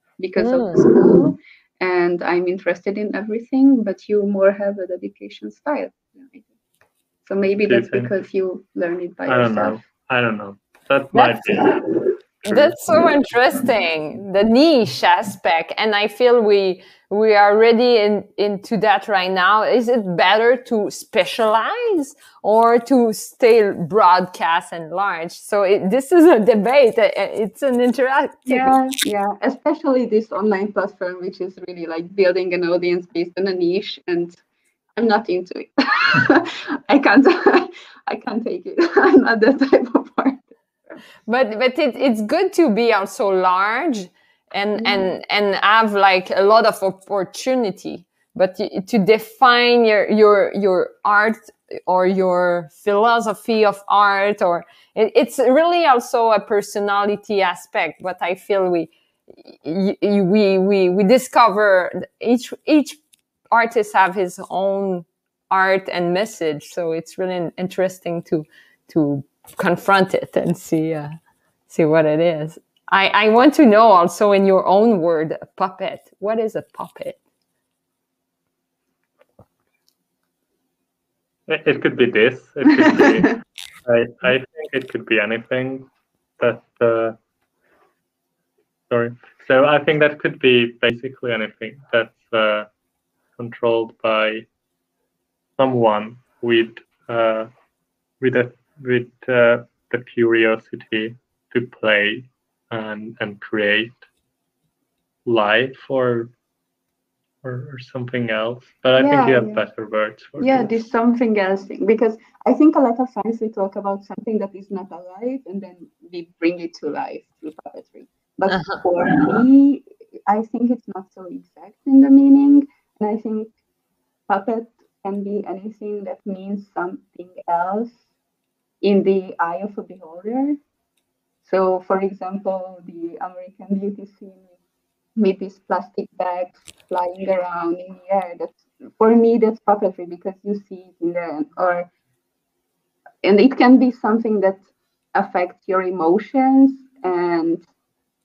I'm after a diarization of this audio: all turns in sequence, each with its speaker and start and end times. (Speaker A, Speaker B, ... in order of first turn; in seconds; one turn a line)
Speaker A: 0.2-6.5
Speaker B: 0.4-1.1
Speaker A: 7.2-9.8
Speaker C: 7.6-8.1
Speaker C: 9.3-12.8
Speaker B: 11.1-11.4
Speaker B: 12.5-28.8
Speaker A: 28.5-34.4
Speaker A: 35.0-41.0
Speaker B: 41.3-58.9
Speaker A: 44.8-45.1
Speaker B: 59.4-63.0
Speaker B: 63.5-71.2
Speaker B: 71.7-77.2
Speaker C: 81.5-85.9
Speaker A: 82.9-83.2
Speaker C: 86.4-87.2
Speaker C: 88.9-92.7
Speaker C: 93.4-94.5
Speaker C: 95.6-97.5
Speaker C: 98.2-104.0
Speaker C: 105.2-106.3
Speaker C: 107.4-110.7
Speaker A: 109.0-109.6
Speaker A: 110.4-123.5
Speaker B: 118.5-118.8
Speaker A: 124.3-128.0
Speaker A: 128.8-130.6
Speaker A: 131.4-134.4
Speaker A: 135.2-141.9
Speaker A: 143.2-144.6
Speaker A: 145.1-147.6